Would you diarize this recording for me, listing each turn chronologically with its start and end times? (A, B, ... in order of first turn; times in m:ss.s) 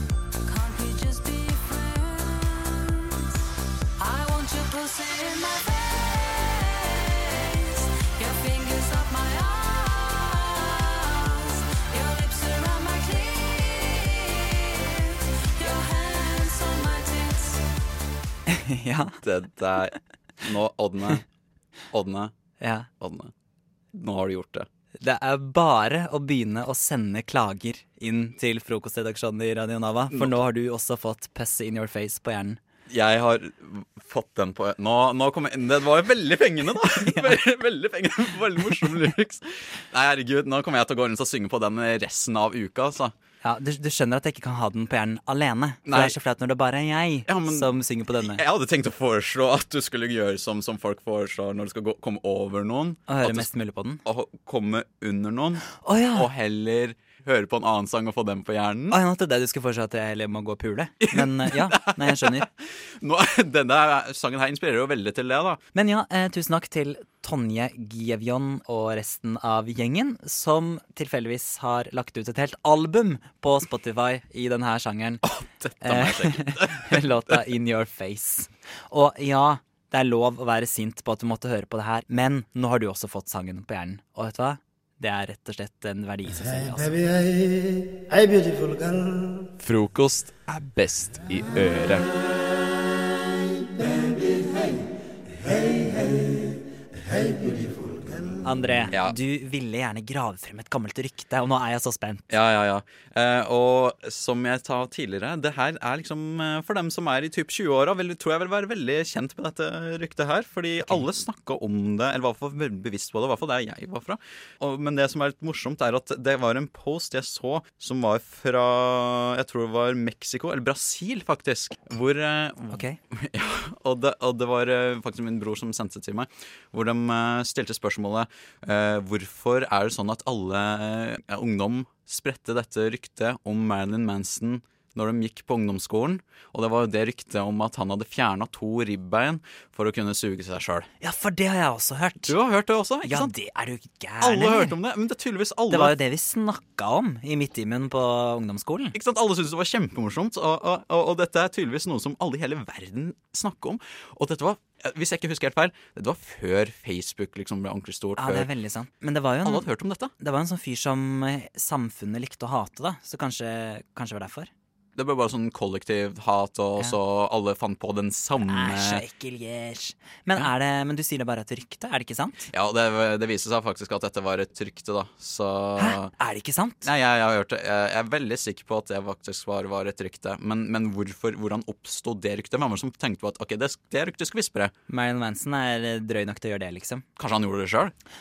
0:00.4-0:03.4 A
0:04.0-0:17.6 A
0:18.5-0:19.2 B
0:19.2-0:21.2 C
0:21.9-0:22.3 C
0:22.6-0:22.9 B
0:23.0-0:23.3 C
0:23.9-0:24.7 C
0:25.0-0:32.6 B
0:32.9-0:43.1 C
0:37.0-0:37.3 B
0:43.4-0:48.4 B
0:45.8-0:46.2 C
0:47.3-0:53.5 C
0:53.1-0:54.0 B
0:54.0-0:59.0 C
0:55.7-0:56.3 B
0:58.9-1:02.5 B
1:01.0-1:05.6 C
1:05.7-1:15.2 B
1:15.2-1:17.4 C
1:15.8-1:27.0 B
1:29.6-1:32.0 D
1:38.4-1:42.3 B
1:42.3-2:20.9 C
2:02.7-2:03.0 B
2:21.0-2:22.3 B
2:22.3-2:23.3 C
2:23.0-2:24.7 B
2:24.2-2:26.0 C
2:25.7-2:29.0 B
2:28.9-2:38.5 C
2:38.2-2:39.7 B
2:39.4-2:40.1 C
2:40.2-2:44.5 B
2:45.0-2:49.0 C
2:48.4-2:52.5 B
2:52.5-2:56.1 C
2:55.8-2:56.9 B
2:56.8-3:04.7 C
3:04.9-3:07.0 B
3:07.2-3:07.9 C